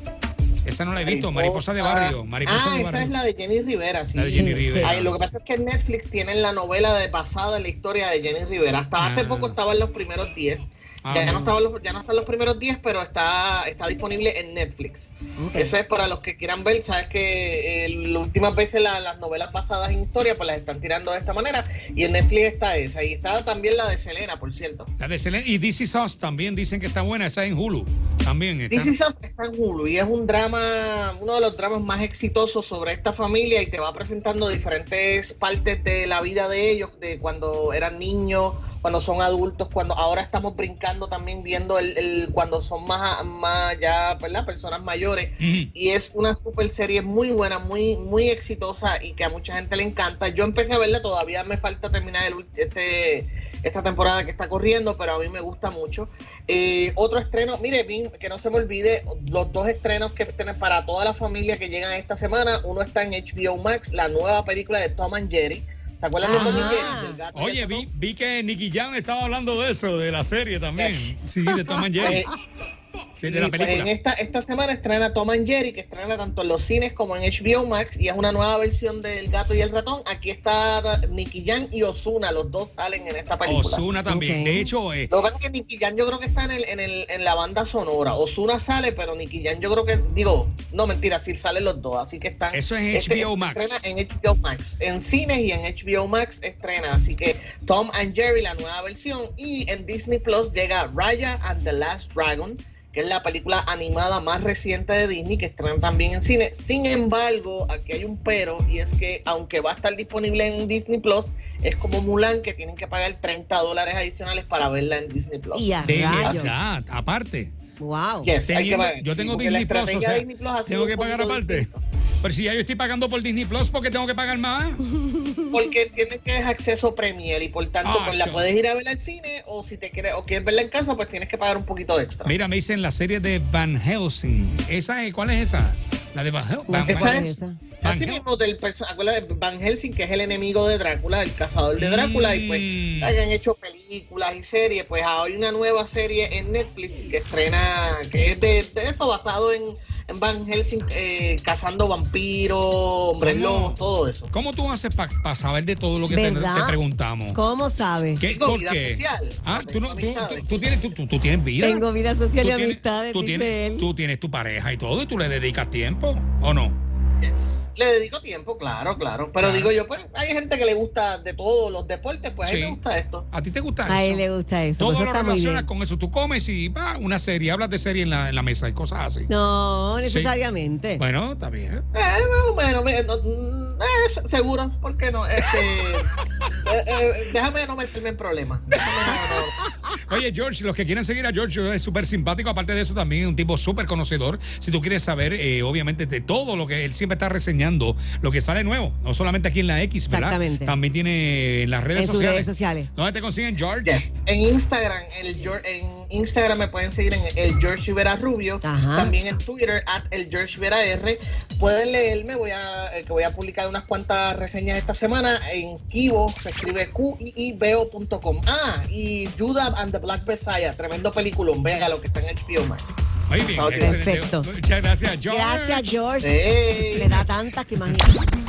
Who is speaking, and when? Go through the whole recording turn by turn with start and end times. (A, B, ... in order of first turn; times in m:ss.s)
0:00.6-0:03.1 A
0:01.0-0:24.9 B
0:04.2-0:05.2 A
0:04.3-0:04.9 C
0:09.0-0:09.6 A
0:11.0-0:11.6 A
0:15.4-0:15.7 C
0:25.0-0:28.9 A
0:28.7-1:07.8 B
0:45.4-0:45.7 A
1:06.2-1:07.2 C
1:06.3-1:12.2 A
1:10.8-1:11.2 B
1:12.0-1:12.3 B
1:13.2-1:23.8 B
1:13.2-1:13.9 A
1:23.4-1:25.1 A
1:24.1-1:24.7 C
1:25.1-1:55.7 B
1:32.5-1:33.8 A
1:55.5-1:56.5 C
1:55.8-1:57.5 A
1:56.2-1:56.5 B
1:57.8-1:58.3 C
1:58.2-2:01.8 B
1:58.4-2:01.7 A
2:02.2-2:04.8 A
2:04.9-2:05.6 C
2:05.5-2:12.3 B
2:07.8-2:08.5 A
2:12.2-2:17.3 A
2:16.7-2:17.6 C
2:16.9-2:34.3 B
2:17.8-2:18.2 A
2:21.8-2:23.2 A
2:33.2-2:33.8 A
2:34.3-2:37.4 A
2:36.1-2:36.8 C
2:37.3-2:38.2 C
2:38.2-2:41.8 A
2:38.3-2:40.6 B
2:41.6-2:43.9 C
2:42.4-2:46.8 A
2:47.2-2:53.2 B
2:49.4-2:49.7 A
2:52.4-2:52.8 A
2:53.3-2:54.2 A
2:53.8-2:55.7 C
2:54.8-2:59.3 A
2:59.3-3:01.0 C
3:00.0-3:00.3 A
3:01.0-3:01.8 A
3:01.9-3:09.5 B
3:08.7-3:24.0 A
3:20.1-3:20.7 C
3:21.9-3:22.9 C
3:23.8-3:44.0 B
3:28.6-3:29.1 C
3:43.3-3:46.0 A
3:43.8-3:44.5 C
3:45.3-3:48.3 C
3:46.2-3:47.1 B
3:47.0-3:47.2 A